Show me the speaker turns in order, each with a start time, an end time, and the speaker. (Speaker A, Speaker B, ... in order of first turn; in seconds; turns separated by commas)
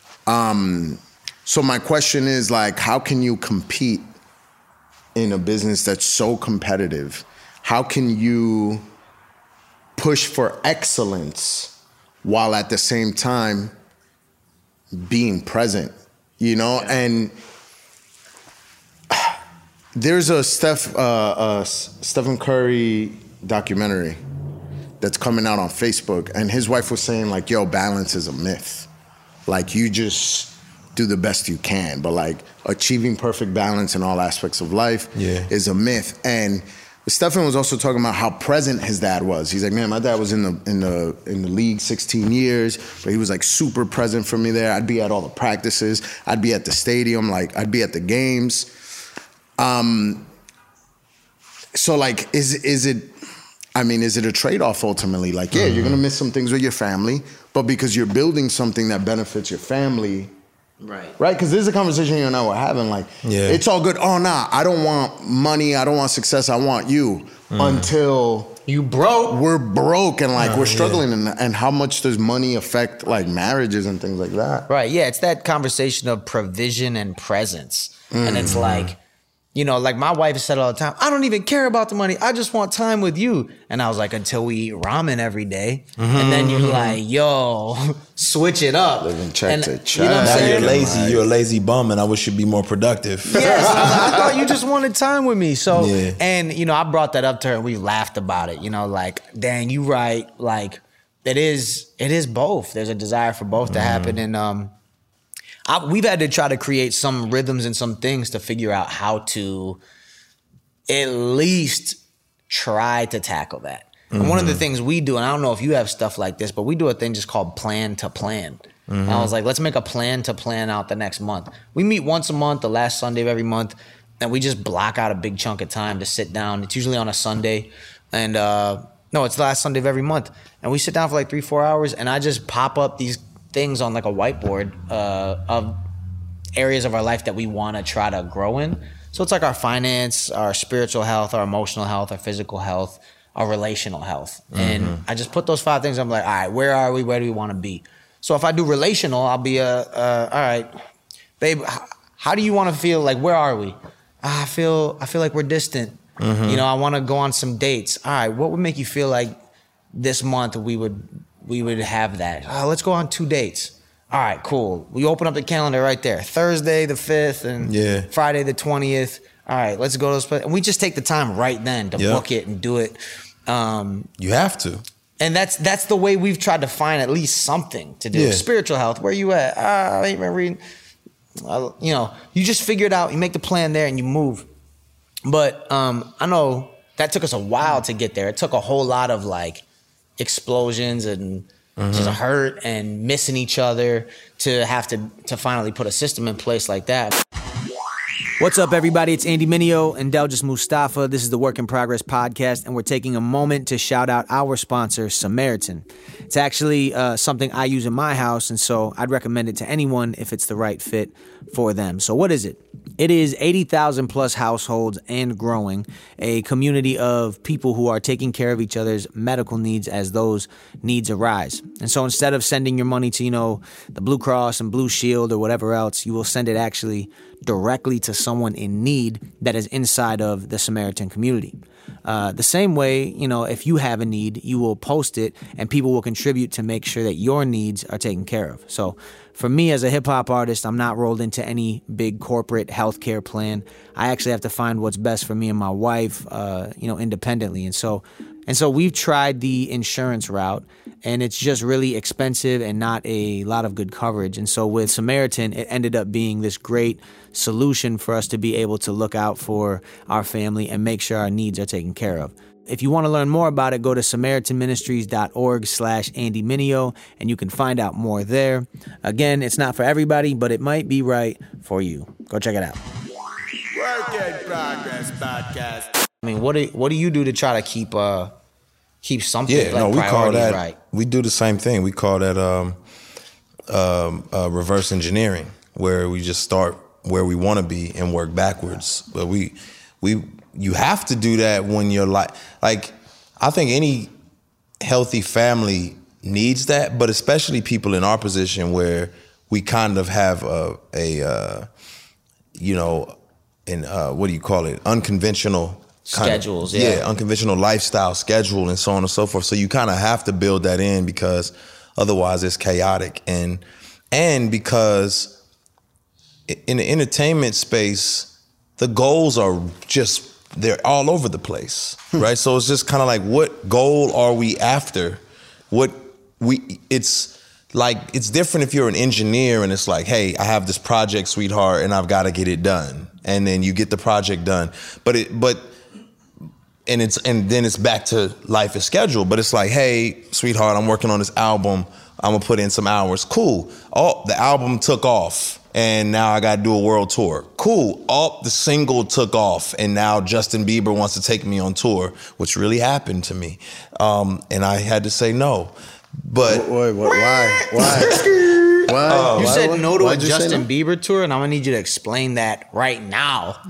Speaker A: 0.2-4.1, Speaker A: 5.1-8.8, Speaker A: 9.9-13.7, Speaker A: 14.9-17.3, Speaker A: 19.1-19.4, Speaker A: 19.9-24.2, Speaker A: 25.0-28.9, Speaker A: 29.5-48.7, Speaker B: 35.1-35.5, Speaker A: 49.6-50.3, Speaker A: 51.7-53.1, Speaker A: 53.7-60.3, Speaker B: 55.5-56.0, Speaker C: 60.8-61.1, Speaker A: 61.2-68.6, Speaker B: 63.2-63.6, Speaker B: 67.5-67.9, Speaker C: 68.7-69.4, Speaker A: 69.3-74.7, Speaker B: 70.4-71.0, Speaker C: 74.7-79.0, Speaker A: 78.1-78.7, Speaker B: 78.3-78.9, Speaker C: 79.5-90.8, Speaker B: 86.0-87.0, Speaker A: 89.0-91.2, Speaker B: 90.2-94.0, Speaker C: 93.3-104.7, Speaker A: 93.3-94.3, Speaker B: 95.7-96.2, Speaker B: 103.7-104.2, Speaker C: 105.7-109.8, Speaker C: 110.9-112.0, Speaker C: 112.5-135.8, Speaker B: 114.1-114.7, Speaker B: 118.9-119.3, Speaker C: 136.6-150.7, Speaker B: 144.5-145.0, Speaker C: 151.4-159.3, Speaker B: 156.2-156.6, Speaker C: 159.9-174.1, Speaker B: 167.6-168.1, Speaker B: 172.0-172.2, Speaker B: 174.2-174.8, Speaker C: 175.2-180.6, Speaker B: 178.1-178.4, Speaker C: 181.4-184.5, Speaker C: 185.2-189.6, Speaker C: 190.2-197.2, Speaker B: 191.8-192.2, Speaker C: 198.4-272.8, Speaker C: 276.2-278.3, Speaker C: 279.0-280.8, Speaker B: 279.5-282.8, Speaker B: 283.7-294.1, Speaker B: 294.8-301.7, Speaker B: 302.5-315.4, Speaker C: 306.1-307.0, Speaker B: 316.5-335.8, Speaker B: 336.9-356.7, Speaker A: 356.4-360.7, Speaker B: 357.8-358.3, Speaker C: 357.8-363.6, Speaker B: 359.1-359.6